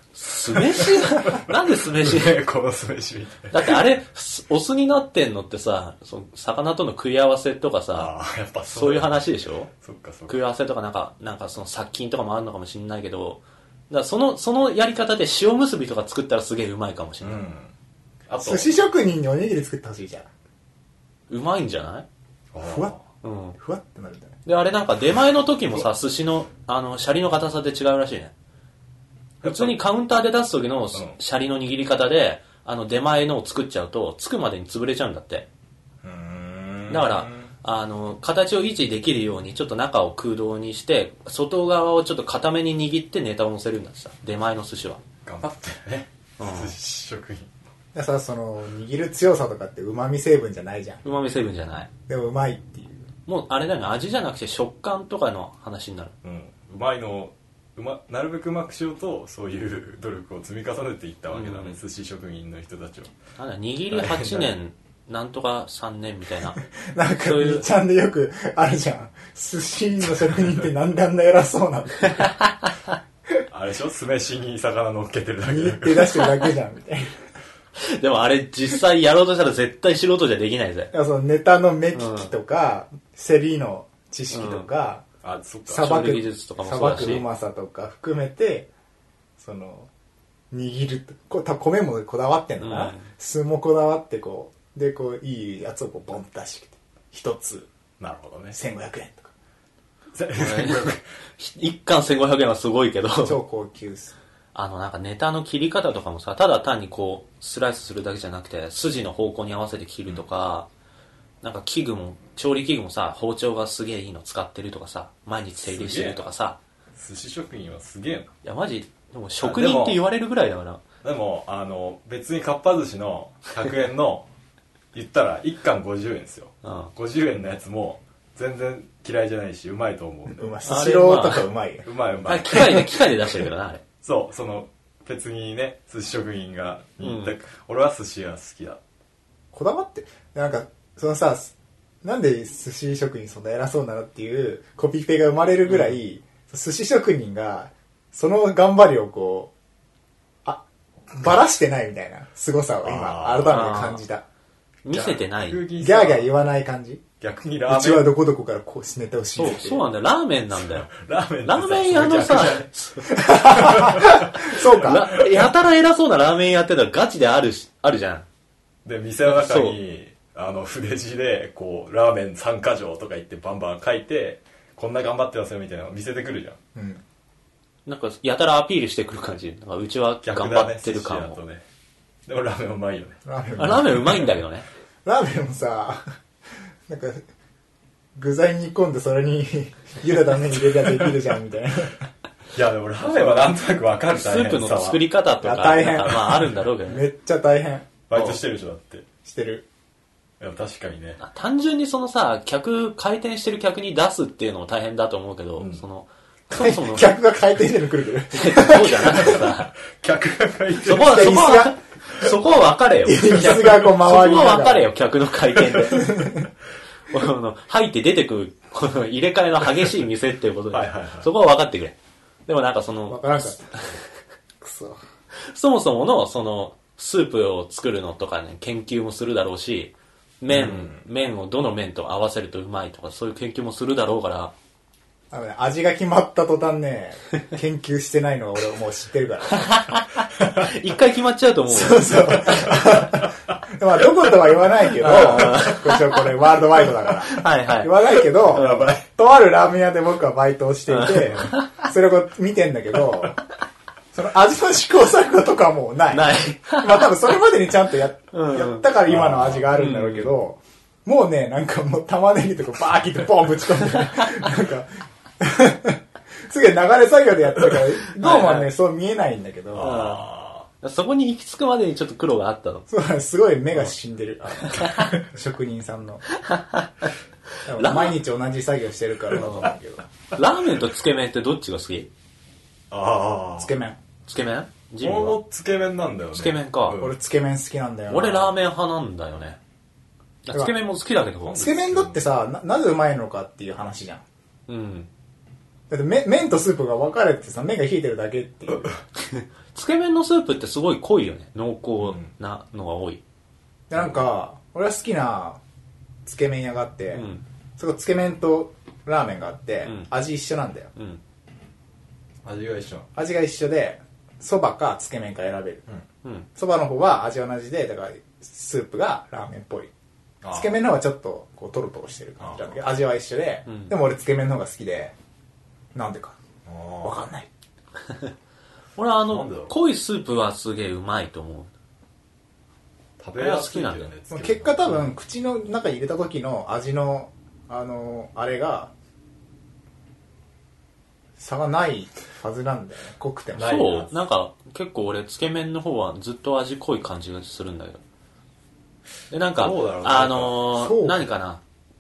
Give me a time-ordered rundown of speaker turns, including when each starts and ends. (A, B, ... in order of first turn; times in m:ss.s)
0:00.1-0:02.4 A
0:00.4-0:03.8 B
0:03.5-0:08.1 A
0:07.9-0:09.2 B
0:08.7-0:09.7 A
0:09.8-0:10.4 B
0:10.3-0:17.4 A
0:17.2-0:17.7 B
0:18.3-0:18.7 B
0:18.4-0:20.3 C
0:21.3-0:22.0 A
0:22.5-0:23.0 B
0:22.6-0:22.9 C
0:23.2-0:23.6 A
0:23.6-0:24.4 C
0:24.4-0:28.3 A
0:29.4-0:29.8 B
0:29.4-0:35.4 A
0:30.9-0:31.2 B
0:36.0-0:37.5 B
0:36.9-0:45.0 A
0:45.2-0:47.5 B
0:46.4-0:46.7 A
0:47.9-0:51.0 C
0:51.0-0:51.9 A
0:52.1-0:53.0 C
0:53.2-0:56.1 A
0:56.2-1:03.1 B
1:01.3-1:01.8 A
1:03.4-1:06.6 A
1:03.9-1:04.5 B
1:06.9-1:12.3 C
1:07.2-1:07.6 A
1:12.1-1:12.7 A
1:13.5-1:16.3 B
1:15.4-1:17.2 C
1:17.8-1:20.9 A
1:20.9-1:25.0 C
1:21.9-1:22.3 A
1:24.3-1:24.7 A
1:25.2-1:26.0 B
1:25.7-1:28.7 C
1:25.8-1:27.2 A
1:29.4-1:29.9 C
1:30.5-1:37.7 C
1:32.6-1:33.1 A
1:38.0-1:38.6 B
1:38.5-1:39.3 C
1:40.1-1:41.0 B
1:40.3-1:43.4 A
1:43.2-1:44.2 C
1:44.5-1:50.7 A
1:51.4-1:56.6 A
1:55.6-1:56.3 B
1:57.0-1:58.3 B
1:58.4-2:00.8 A
1:59.4-2:00.0 B
2:01.0-2:04.3 B
2:04.9-2:10.5 B
2:06.6-2:06.9 A
2:10.3-2:11.9 C
2:10.6-2:11.4 A
2:11.8-2:12.8 B
2:12.2-2:13.8 A
2:14.0-2:18.8 B
2:17.0-2:17.3 A
2:19.5-2:29.5 C
2:25.6-2:26.0 A
2:30.4-2:34.2 C
2:32.8-2:33.6 B
2:33.5-2:34.0 A
2:34.8-2:35.6 A
2:34.9-2:36.3 B
2:35.8-2:37.0 C
2:37.2-2:38.1 B
2:37.7-2:39.8 C
2:39.4-2:40.9 A
2:40.6-2:42.7 B
2:41.4-2:43.1 A
2:43.1-2:45.2 C
2:43.5-2:44.5 B
2:44.4-2:48.2 A
2:48.8-2:56.6 B
2:49.2-2:49.8 A
2:56.7-2:57.0 C
2:57.8-3:01.4 A
3:00.2-3:01.6 B
3:02.3-3:03.2 B
3:03.2-3:04.1 C
3:03.6-3:04.6 A
3:05.0-3:06.0 C
3:06.9-3:07.2 C
3:08.2-3:12.0 C
3:12.5-3:15.0 B
3:13.0-3:13.5 A
3:14.1-3:17.0 A
3:15.4-3:17.9 C
3:18.1-3:19.0 B
3:18.1-3:18.4 A
3:19.2-3:19.6 C
3:20.4-3:21.2 B
3:21.2-3:27.1 A
3:25.6-3:25.8 B
3:26.5-3:29.4 C
3:28.3-3:29.7 A
3:29.2-3:31.2 B
3:30.8-3:36.3 A
3:31.0-3:31.8 C
3:33.0-3:34.9 C
3:36.0-3:36.5 C
3:37.1-3:44.0 A
3:40.7-3:41.3 B
3:43.1-3:43.8 C
3:44.6-3:45.0 C
3:45.4-3:54.5 A
3:50.5-3:51.0 B
3:55.3-3:59.6 C
3:59.5-4:02.7 A
4:01.7-4:13.4 C
4:02.4-4:03.6 B
4:04.2-4:05.7 B
4:05.0-4:06.2 A
4:07.2-4:08.9 A
4:08.5-4:09.0 B
4:10.9-4:11.8 A
4:14.1-4:29.9 C
4:16.1-4:17.1 A
4:18.3-4:18.9 A
4:19.0-4:19.7 B
4:19.7-4:20.3 A
4:28.2-4:28.7 A
4:29.7-4:30.6 B
4:29.8-4:30.3 A
4:30.8-4:32.9 A
4:32.9-4:36.2 C
4:34.6-4:35.1 A
4:34.9-4:35.2 B
4:36.3-4:37.1 A
4:37.6-4:40.0 C
4:37.7-4:38.2 A
4:39.3-4:39.7 A
4:40.3-4:42.1 A
4:42.9-4:43.7 B
4:43.6-4:44.0 C
4:44.3-4:45.4 A
4:45.0-4:47.1 B
4:46.3-4:47.0 A
4:47.0-4:48.5 C
4:48.1-4:49.6 A
4:50.4-4:51.9 A
4:51.5-4:54.2 C
4:51.8-4:52.2 B
4:54.7-4:55.1 A
4:55.9-4:58.9 C
4:59.2-5:03.2 A
5:02.0-5:02.3 B
5:03.9-5:05.6 C
5:03.9-5:04.2 B
5:06.2-5:07.2 C
5:07.1-5:07.4 A
5:07.8-5:10.9 C
5:09.8-5:10.1 A
5:10.9-5:11.2 A
5:12.4-5:13.1 B
5:13.2-5:15.8 C
5:16.6-5:19.9 C
5:20.4-5:20.8 B
5:20.5-5:25.1 C
5:22.4-5:22.7 B
5:23.6-5:23.9 A
5:25.9-5:26.4 C
5:26.6-5:27.2 B
5:27.0-5:27.5 C
5:29.0-5:31.7 A
5:29.3-5:29.7 B
5:33.2-5:35.0 B
5:33.4-5:34.1 A
5:34.3-5:38.9 C
5:34.8-5:35.1 A
5:41.4-5:43.8 C
5:43.6-5:44.1 B
5:43.6-5:48.0 A
5:49.3-5:51.6 A
5:49.6-5:50.6 B
5:50.8-5:51.3 C